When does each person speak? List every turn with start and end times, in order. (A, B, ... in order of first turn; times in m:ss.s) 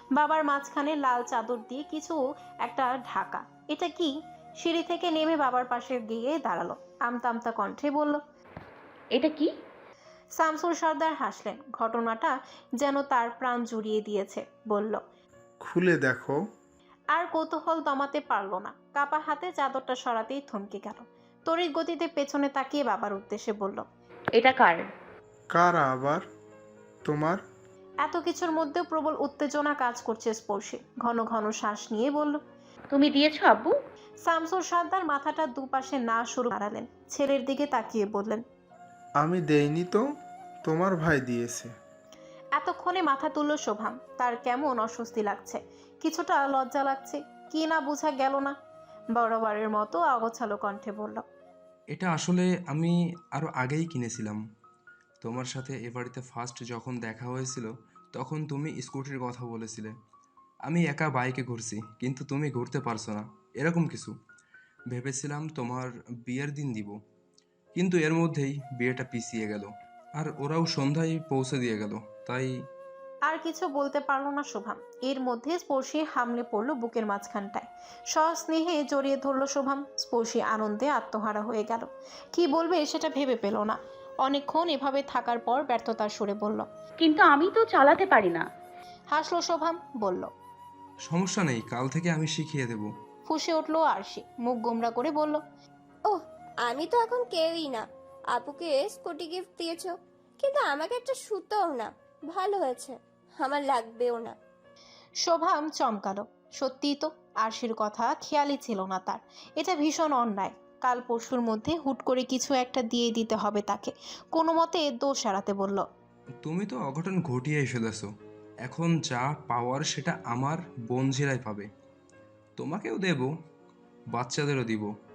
0:00.2-0:08.2 A
0:09.2-0:09.5 B
0:10.4-0:15.0 A
0:15.6-0:16.4 C
0:17.1-0:23.8 A
0:24.4-0:24.8 B
0:25.5-0:26.3 C
0:27.0-0:27.4 C
0:28.0-0:32.4 A
0:32.9-0:33.7 B
0:34.3-0:38.4 A
0:39.2-0:40.0 C
0:40.6-0:41.7 C
0:42.6-0:48.5 A
0:49.2-0:51.2 A
0:51.9-0:54.4 D
0:55.2-0:59.9 D
1:00.7-1:04.1 D
1:04.9-1:07.0 D
1:07.8-1:12.5 D
1:13.3-1:26.6 A
1:27.0-1:28.4 B
1:29.1-1:30.3 A
1:31.0-1:32.9 D
1:33.3-1:35.4 A
1:36.1-1:44.4 E
1:45.2-1:55.8 A
1:56.5-1:58.1 D
1:58.6-2:01.7 D
2:02.6-2:03.3 D
2:04.1-2:04.9 D